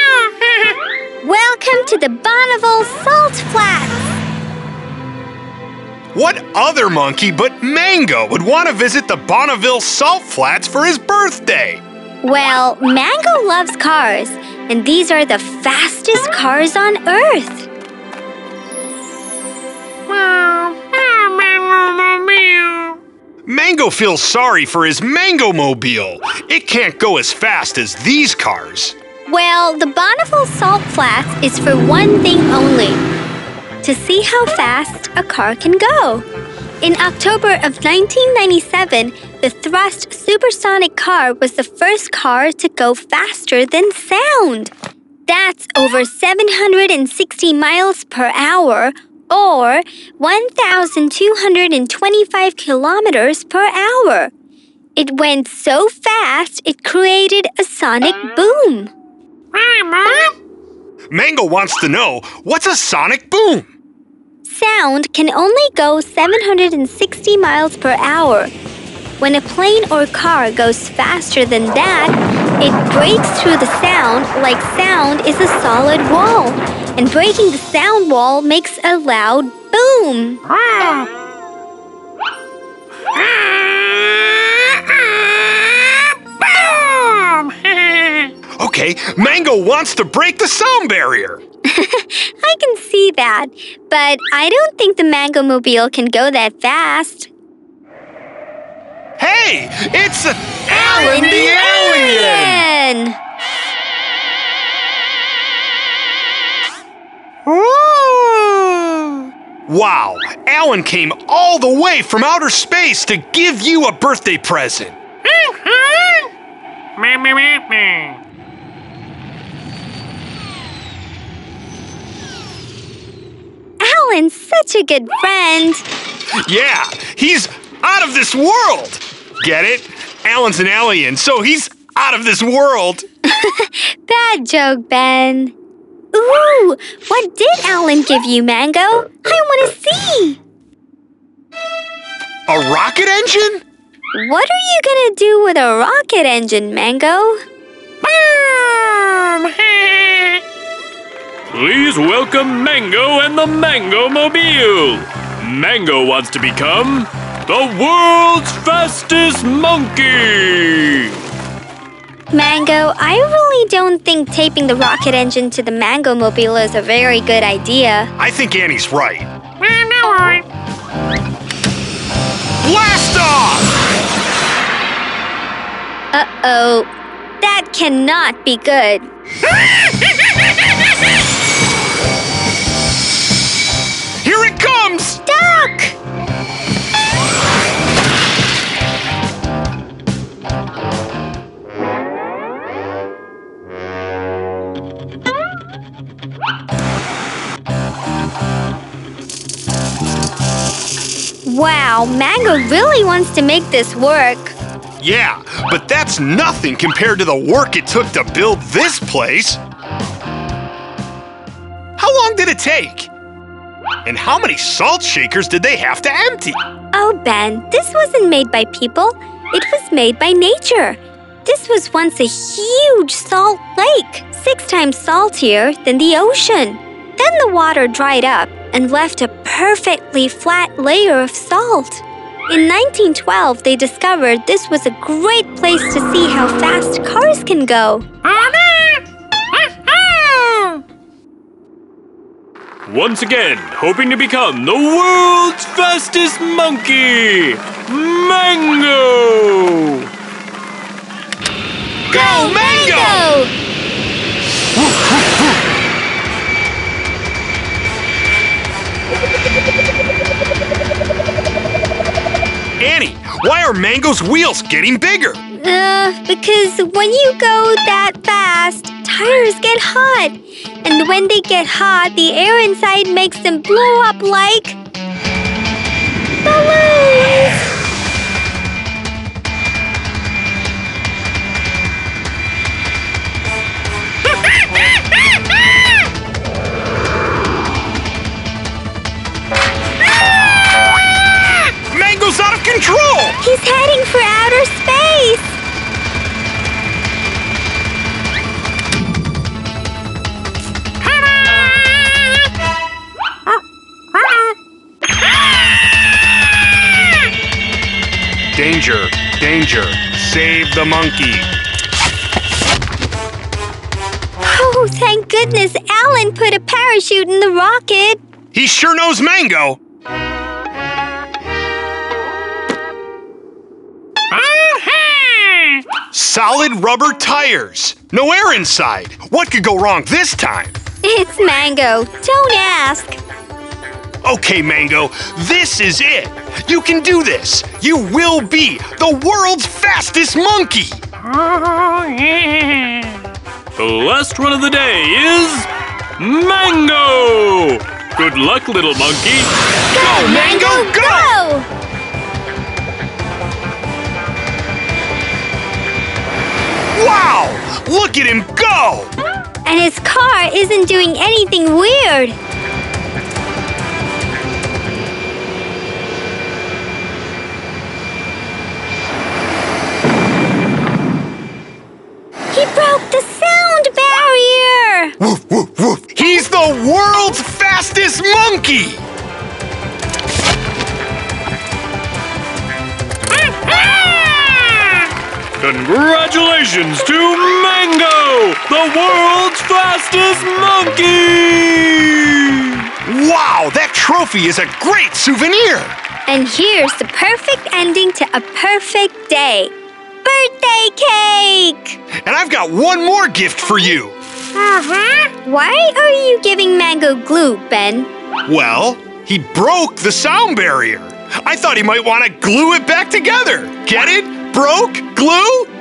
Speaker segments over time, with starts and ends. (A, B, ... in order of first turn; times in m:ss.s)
0:01.2-0:04.1 A
0:06.1-0:11.8 B
0:12.2-0:17.7 A
0:20.1-0:23.0 C
0:23.5-0:29.0 B
0:29.3-0:33.0 A
0:33.8-0:36.3 A
0:36.8-0:44.7 A
0:45.3-0:54.3 A
0:55.0-0:58.9 A
0:59.5-1:00.2 C
1:01.1-1:03.7 B
1:04.4-1:08.5 A
1:09.2-1:20.4 A
1:20.6-1:21.1 C
1:23.1-1:28.3 C
1:28.6-1:31.4 B
1:31.7-1:37.3 A
1:39.2-1:42.7 B
1:40.7-1:43.2 A
1:47.5-1:49.2 C
1:49.7-1:55.0 B
1:55.3-1:56.3 C
1:57.0-1:58.2 C
2:03.8-2:05.9 A
2:06.4-2:13.0 B
2:13.3-2:15.5 A
2:16.1-2:20.4 A
2:22.5-2:23.6 B
2:24.1-2:27.4 A
2:28.0-2:30.4 C
2:31.5-2:41.2 C
2:42.3-2:48.1 A
2:48.2-2:49.3 B
2:49.7-2:50.4 C
2:52.6-2:53.7 B
2:56.1-2:56.9 A
2:57.4-2:59.1 A
3:04.2-3:05.2 B
3:05.2-3:06.0 A
3:21.4-3:24.6 A
3:25.0-3:29.6 B
3:32.0-3:33.1 B
3:34.0-3:36.6 B
3:36.9-3:58.1 A
3:58.3-3:59.0 C
3:59.9-4:00.8 C
4:02.9-4:10.1 C
4:12.1-4:13.3 B
4:12.1-4:13.5 A
4:14.8-4:15.6 B
4:22.8-4:25.4 B
4:25.5-4:34.8 A
4:36.4-4:37.6 A
4:51.9-4:53.4 B
4:53.4-4:55.6 A
5:01.6-5:02.1 C
5:08.5-5:11.5 B
5:14.4-5:18.2 A
5:18.5-5:19.8 B
5:24.3-5:25.8 C
5:26.1-5:30.8 B
5:31.0-5:33.2 A
5:34.2-5:41.0 B
5:41.3-5:43.2 C
5:43.8-5:49.5 C
5:49.9-5:51.7 A
5:49.9-5:51.3 B
5:57.0-5:59.1 B
5:59.6-6:02.4 A
6:12.5-6:15.2 A
6:15.2-6:19.0 B
6:23.4-6:25.1 C
6:25.6-6:32.9 C
6:33.0-6:36.0 B
6:36.3-6:39.7 A
6:40.2-6:42.0 A
6:42.2-6:44.2 B
6:44.7-6:48.1 A
6:48.5-6:55.7 B